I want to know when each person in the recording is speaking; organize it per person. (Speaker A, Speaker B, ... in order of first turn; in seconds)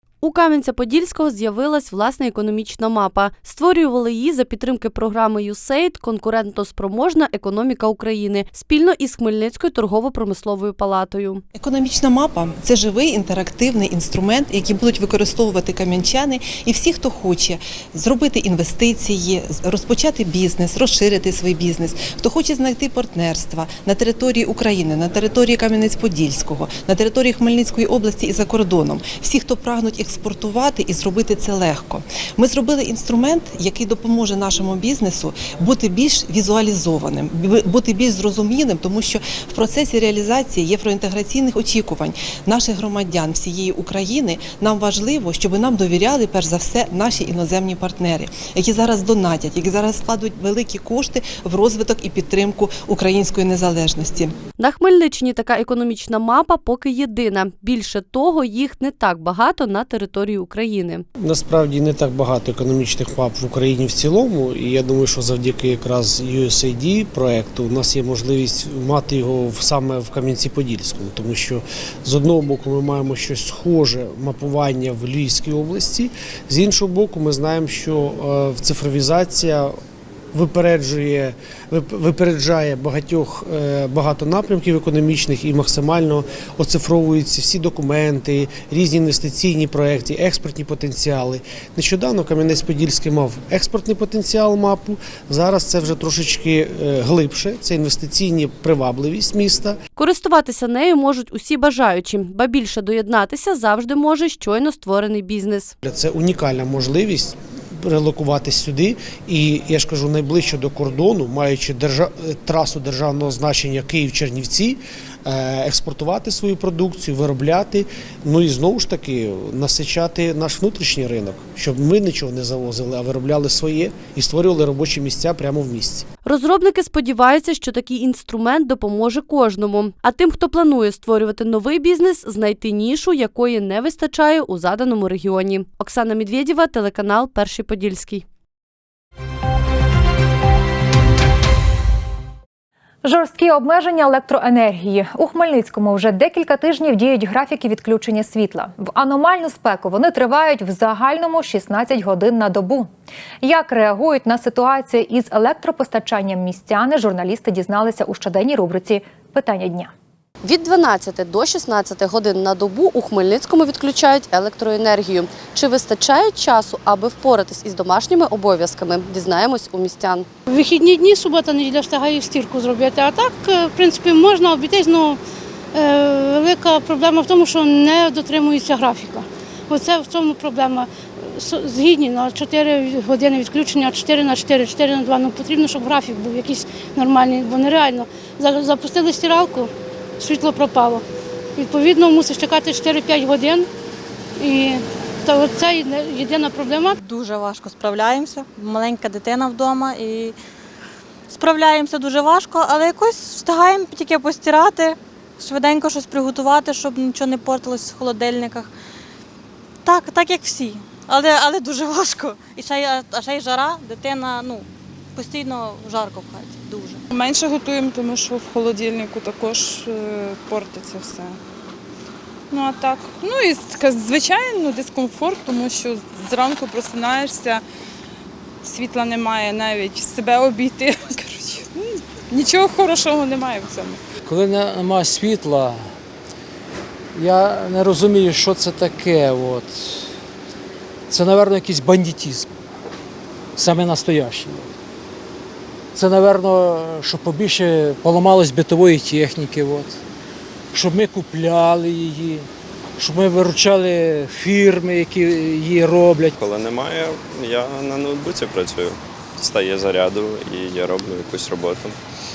Speaker A: 0.2-11.4, 54.6-61.0, 100.0-105.7, 126.2-138.2, 160.4-170.3
Speaker B: 11.5-54.3
Speaker C: 61.2-79.7, 80.3-99.8, 105.8-126.1
Speaker D: 143.0-152.9, 153.4-159.9
Speaker E: 170.5-175.2, 175.7-191.0, 191.6-193.7, 194.4-197.0
Speaker F: 197.0-200.4, 201.3-208.7, 209.8-217.0
Speaker G: 217.1-221.4, 222.5-227.6, 228.6-234.0
Speaker H: 234.2-235.8, 237.1-240.1, 241.1-242.5, 243.6-244.7, 245.9-249.9, 250.7-252.4, 253.0-256.3
Speaker I: 256.4-262.0